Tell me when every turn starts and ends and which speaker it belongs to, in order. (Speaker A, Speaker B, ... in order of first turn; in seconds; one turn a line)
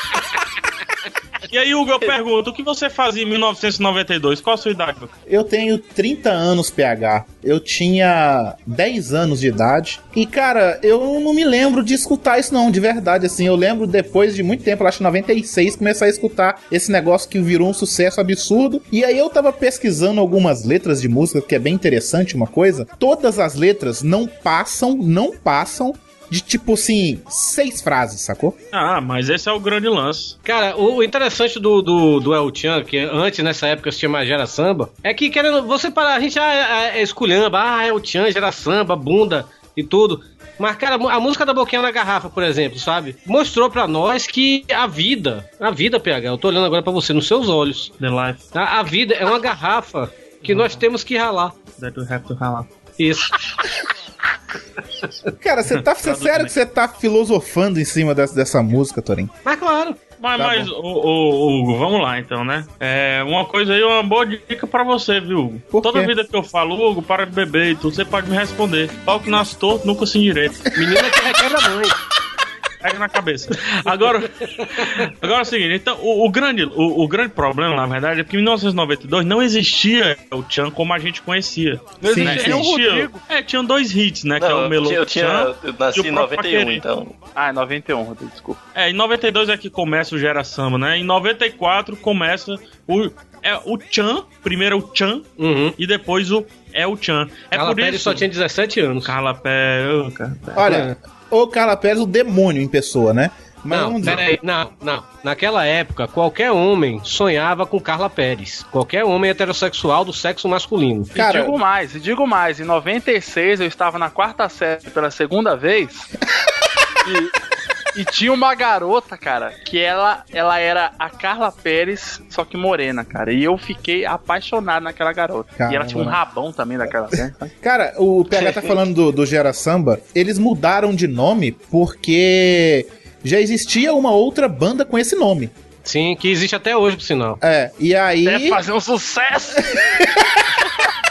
Speaker A: 1.5-5.1
Speaker B: 5.3-28.6
Speaker A: 28.7-30.4
Speaker C: 30.4-47.9
Speaker A: 48.0-48.5
Speaker C: 48.5-51.6
Speaker A: 50.4-50.9
Speaker A: 51.7-52.7
Speaker C: 53.0-53.4
Speaker B: 55.4-59.3
Speaker A: 55.7-56.5
Speaker C: 59.4-60.0
Speaker A: 60.2-70.7
Speaker B: 60.4-60.7
Speaker B: 65.7-66.1
Speaker C: 70.7-71.9
Speaker A: 72.8-86.8
Speaker C: 74.6-74.9
Speaker D: 82.0-83.2
Speaker B: 82.0-82.7
Speaker E: 84.4-87.1
Speaker D: 87.3-88.6
Speaker A: 88.7-98.3
Speaker C: 95.4-95.8
Speaker C: 97.5-99.1
Speaker A: 99.0-100.7
Speaker B: 100.5-104.3
Speaker C: 100.6-100.9
Speaker C: 103.7-111.1
Speaker B: 111.1-111.5
Speaker D: 111.2-116.1
Speaker D: 117.0-117.3
Speaker D: 117.9-127.5
Speaker B: 125.6-126.2
Speaker B: 127.6-135.5
Speaker C: 128.4-128.7
Speaker C: 135.8-137.4
Speaker B: 137.4-138.6
Speaker D: 138.2-140.0
Speaker B: 139.8-140.2